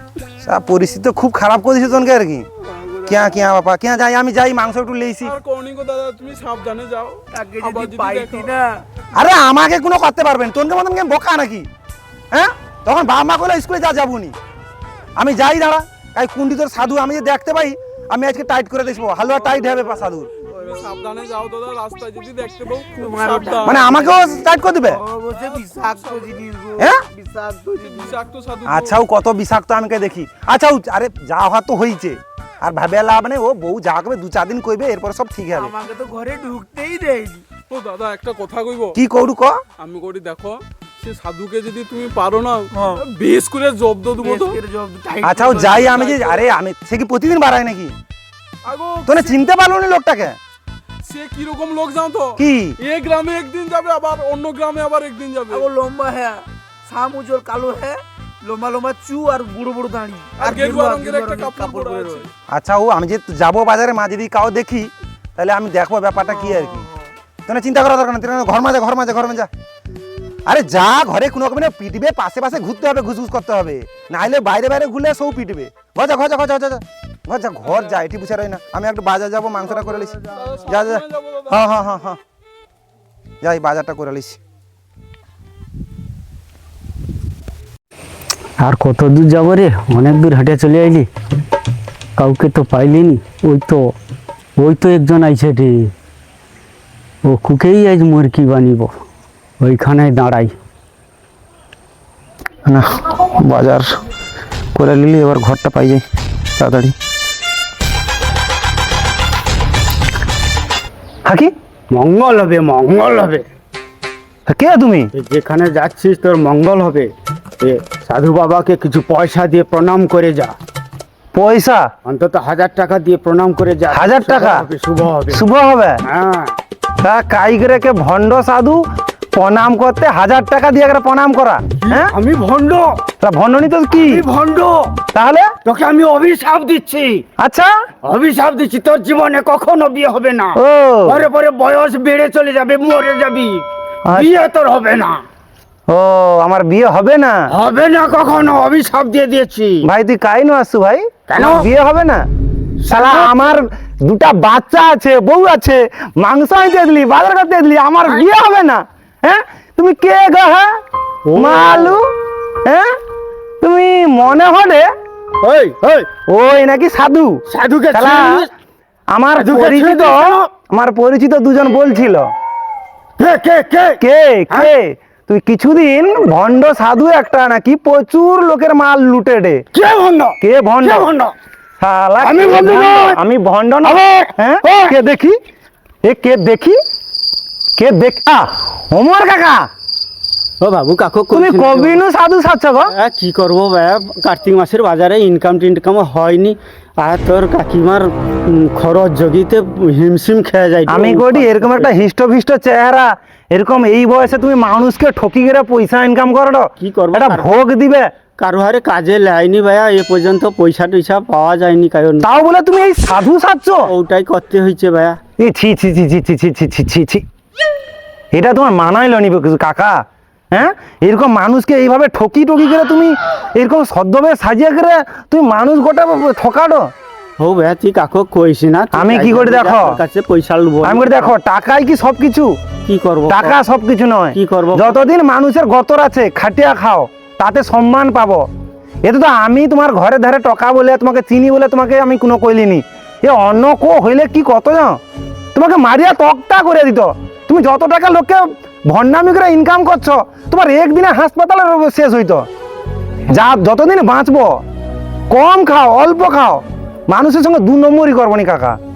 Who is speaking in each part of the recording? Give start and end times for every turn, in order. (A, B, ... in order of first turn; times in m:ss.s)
0:00.4-0:02.5 A
0:02.6-0:03.5 B
0:03.1-0:05.4 A
0:05.2-0:08.5 C
0:07.3-0:08.8 B
0:09.2-0:11.7 A
0:12.3-0:14.4 A
0:15.2-0:20.3 A
0:20.4-0:24.1 C
0:20.5-0:20.9 B
0:23.0-0:28.2 B
0:23.6-0:25.0 A
0:25.3-0:26.4 C
0:26.8-0:27.0 A
0:27.8-0:29.0 C
0:28.7-0:35.7 A
0:35.5-0:37.4 B
0:37.7-0:39.0 C
0:39.0-0:39.6 A
0:39.8-0:44.6 C
0:42.7-0:43.0 B
0:44.2-0:46.0 B
0:45.2-0:47.9 A
0:45.8-0:46.5 C
0:48.7-0:49.3 C
0:49.1-0:50.4 A
0:51.1-0:55.7 C
0:52.4-0:52.8 A
0:55.5-1:02.2 B
1:00.4-1:02.3 C
1:02.5-1:06.9 A
1:06.3-1:07.1 B
1:07.5-1:09.5 A
1:10.5-1:22.2 A
1:17.7-1:18.0 C
1:20.1-1:21.8 C
1:23.4-1:24.4 A
1:28.6-1:31.1 D
1:32.2-1:33.9 D
1:34.6-1:35.9 D
1:37.2-1:38.9 D
1:39.6-1:40.6 D
1:42.7-1:43.9 A
1:44.8-1:46.0 A
1:46.6-1:47.0 A
1:51.3-1:51.5 A
1:51.9-1:53.4 D
1:54.5-1:55.1 A
1:55.1-2:00.6 D
2:01.3-2:01.9 A
2:02.0-2:05.4 D
2:03.9-2:04.7 A
2:05.3-2:06.0 A
2:06.0-2:06.5 D
2:07.0-2:12.1 A
2:11.8-2:12.9 D
2:13.2-2:14.2 A
2:14.0-2:15.0 D
2:15.1-2:15.5 A
2:15.6-2:17.2 D
2:17.4-2:17.7 A
2:18.0-2:25.2 D
2:20.6-2:21.2 A
2:25.9-2:27.4 A
2:27.5-2:29.8 D
2:29.8-2:32.2 A
2:31.3-2:31.7 D
2:32.9-2:33.3 D
2:32.9-2:40.7 A
2:41.3-2:42.0 D
2:41.4-2:42.1 A
2:42.6-2:42.9 A
2:43.6-2:44.9 A
2:45.4-2:46.1 D
2:46.3-2:47.4 A
2:47.5-2:48.5 D
2:47.9-2:48.5 A
2:49.1-2:52.3 A
2:49.4-2:50.5 D
2:53.2-2:54.0 D
2:54.0-2:59.6 A
2:59.7-3:01.3 D
3:00.4-3:01.1 A
3:01.8-3:05.4 A
3:02.2-3:03.2 D
3:03.8-3:04.9 D
3:06.0-3:06.8 A
3:07.8-3:09.7 A
3:10.6-3:12.0 D
3:11.3-3:12.9 A
3:12.9-3:21.9 D
3:20.9-3:28.1 A
3:26.8-3:27.5 D
3:28.4-3:32.2 D
3:32.2-3:33.9 A
3:33.9-3:35.2 D
3:35.4-3:37.2 A
3:38.3-3:46.9 A
3:47.4-3:51.3 D
3:48.9-3:50.0 A
3:50.8-3:52.5 A
3:52.9-3:53.6 D
3:53.3-3:58.4 A
3:54.3-3:55.0 D
3:59.0-4:05.0 A
4:05.6-4:12.5 A
4:13.3-4:14.6 A
4:15.3-4:18.8 A